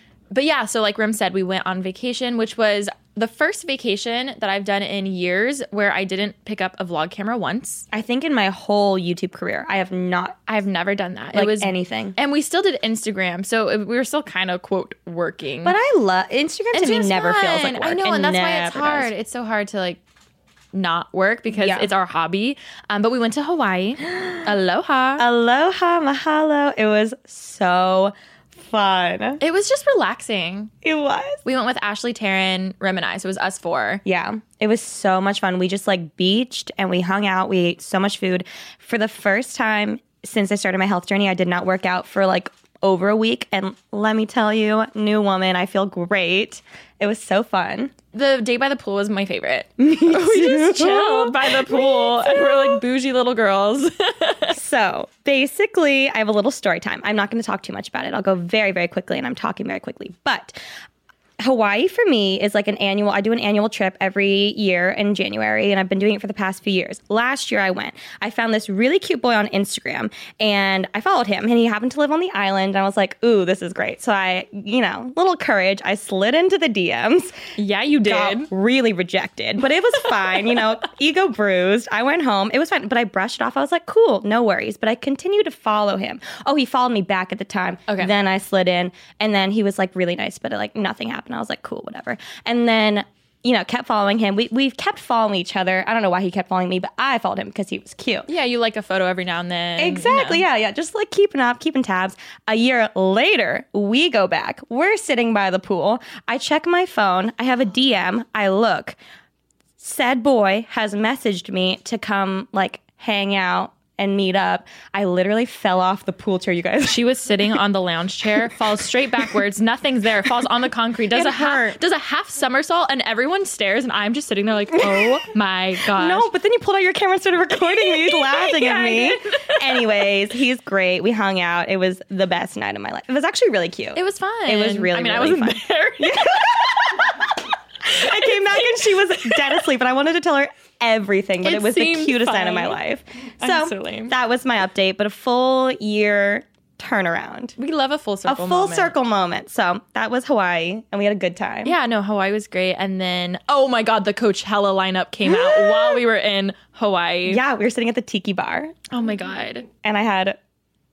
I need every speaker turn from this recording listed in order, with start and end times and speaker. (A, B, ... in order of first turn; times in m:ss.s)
0:00.3-0:07.8 A
0:07.9-0:10.4 B
0:10.5-0:15.8 A
0:11.3-0:12.2 B
0:15.6-0:19.1 B
0:16.7-0:20.0 A
0:20.7-0:25.2 A
0:21.5-0:21.9 B
0:24.1-0:24.4 B
0:25.2-0:29.4 B
0:29.4-0:30.7 A
0:30.8-0:31.4 B
0:31.4-0:34.0 A
0:34.0-0:47.9 B
0:48.1-0:54.6 A
0:49.8-0:52.8 B
0:54.5-1:00.5 B
1:01.4-1:17.4 B
1:17.6-1:18.5 A
1:18.0-1:38.3 B
1:27.9-1:28.1 A
1:38.3-1:40.4 A
1:39.8-1:49.0 B
1:49.8-1:57.0 B
1:56.8-2:06.3 A
2:01.1-2:01.8 B
2:04.8-2:05.2 B
2:05.9-2:17.3 B
2:07.6-2:09.8 A
2:13.9-2:17.2 A
2:17.8-2:27.6 B
2:18.0-2:18.6 A
2:19.1-2:19.4 A
2:21.4-2:22.8 A
2:23.4-2:24.1 A
2:27.6-2:28.9 A
2:28.3-2:31.7 B
2:31.6-2:37.4 A
2:35.2-2:36.0 B
2:37.2-2:38.7 B
2:38.9-2:39.7 A
2:39.8-2:40.4 B